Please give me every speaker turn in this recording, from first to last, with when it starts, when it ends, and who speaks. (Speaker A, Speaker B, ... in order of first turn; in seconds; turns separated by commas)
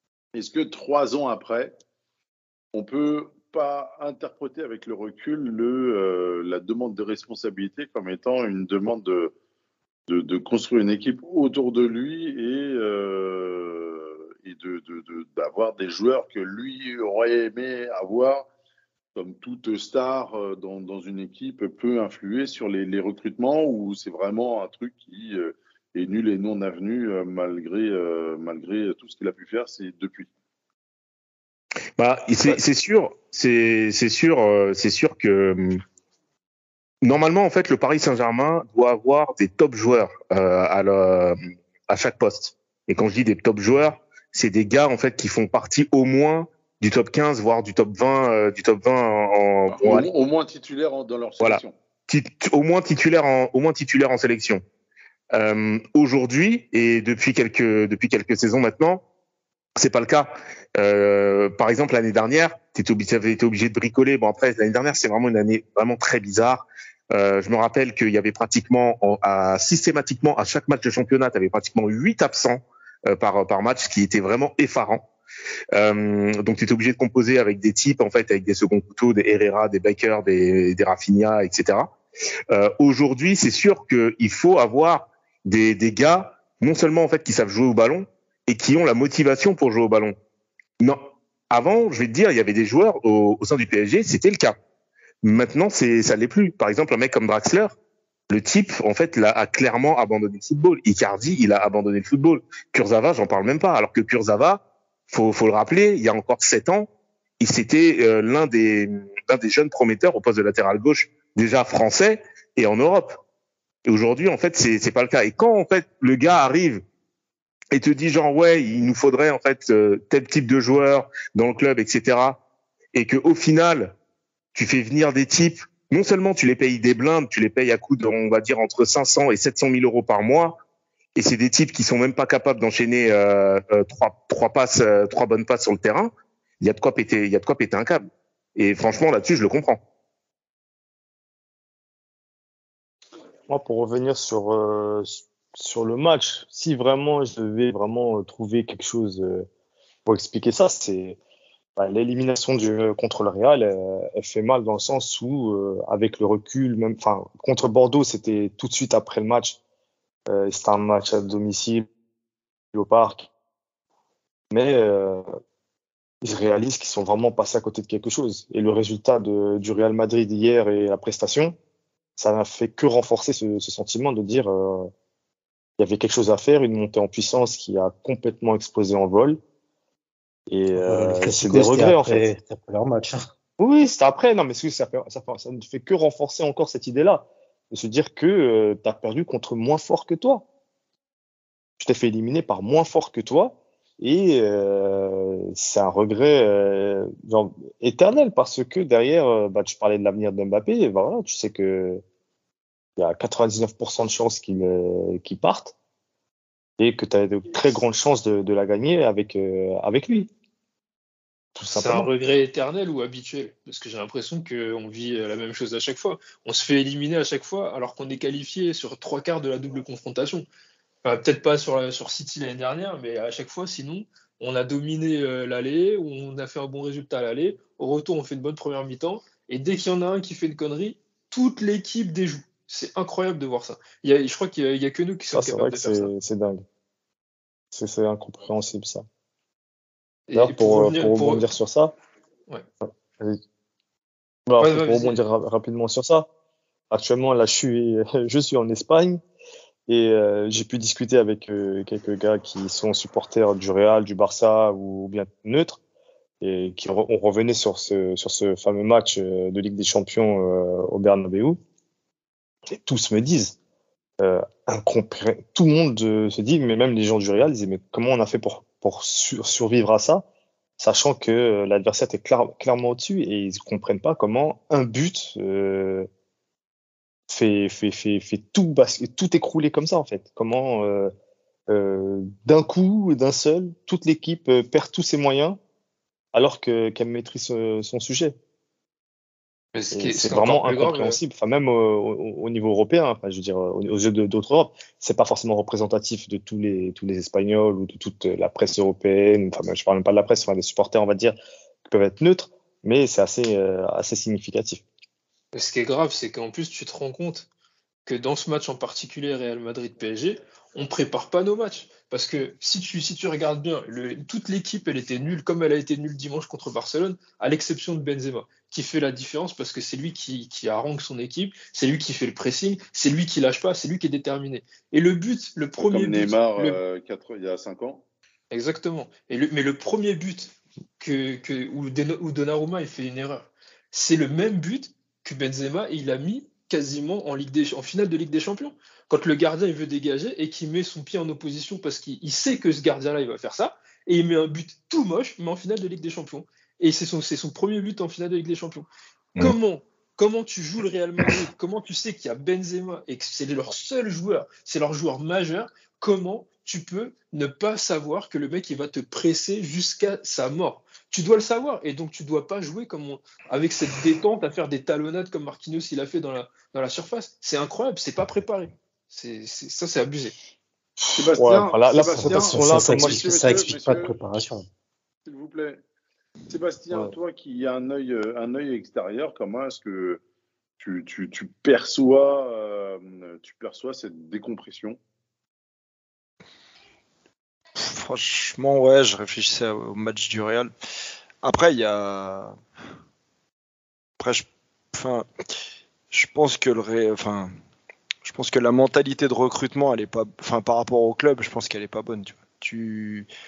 Speaker A: 0.3-1.8, Speaker A: 2.7-9.3, Speaker A: 10.1-18.5, Speaker A: 19.1-30.3, Speaker B: 32.0-35.8, Speaker B: 37.0-41.4, Speaker B: 41.9-50.1, Speaker A: 49.7-51.8, Speaker B: 51.4-54.6, Speaker B: 55.3-59.0, Speaker B: 59.8-75.0, Speaker B: 75.7-81.9, Speaker B: 82.5-90.2, Speaker B: 90.8-94.5, Speaker B: 95.2-97.8, Speaker B: 98.3-106.9, Speaker B: 107.4-113.2, Speaker B: 113.9-116.8, Speaker B: 117.7-122.4, Speaker B: 122.9-123.9, Speaker B: 124.5-130.6, Speaker B: 131.2-139.8, Speaker C: 143.5-149.5, Speaker C: 150.1-151.2, Speaker C: 151.8-159.6, Speaker C: 160.3-161.9, Speaker C: 162.7-163.3, Speaker C: 164.5-165.2, Speaker C: 166.2-171.6, Speaker C: 172.2-174.9, Speaker C: 175.8-179.4, Speaker C: 180.5-182.3, Speaker D: 180.8-183.3, Speaker C: 183.6-190.4, Speaker C: 191.8-202.0, Speaker C: 203.0-205.8, Speaker C: 206.8-210.3, Speaker C: 211.6-212.1, Speaker E: 211.8-220.5, Speaker E: 221.0-236.1, Speaker C: 235.3-236.6, Speaker C: 237.7-239.1, Speaker E: 240.3-241.5, Speaker C: 240.3-241.9, Speaker C: 242.8-243.4, Speaker C: 244.5-246.3, Speaker E: 244.6-245.2, Speaker C: 246.9-249.2, Speaker C: 249.9-255.8, Speaker C: 256.4-261.6, Speaker C: 262.7-263.6, Speaker C: 264.2-270.2, Speaker C: 270.8-276.1, Speaker C: 277.3-281.1, Speaker C: 281.7-285.6, Speaker C: 286.3-288.4, Speaker E: 289.7-291.2, Speaker C: 289.9-304.8, Speaker E: 305.5-307.5, Speaker E: 308.1-326.8, Speaker A: 325.8-328.1, Speaker E: 328.5-348.9, Speaker E: 349.4-370.3, Speaker C: 371.0-373.6, Speaker A: 371.2-374.2, Speaker D: 372.2-374.7, Speaker A: 375.3-375.8, Speaker A: 376.5-380.2, Speaker A: 380.8-385.0, Speaker F: 387.8-390.7, Speaker F: 391.4-392.6, Speaker F: 394.2-395.3, Speaker F: 396.1-397.5, Speaker F: 398.2-403.3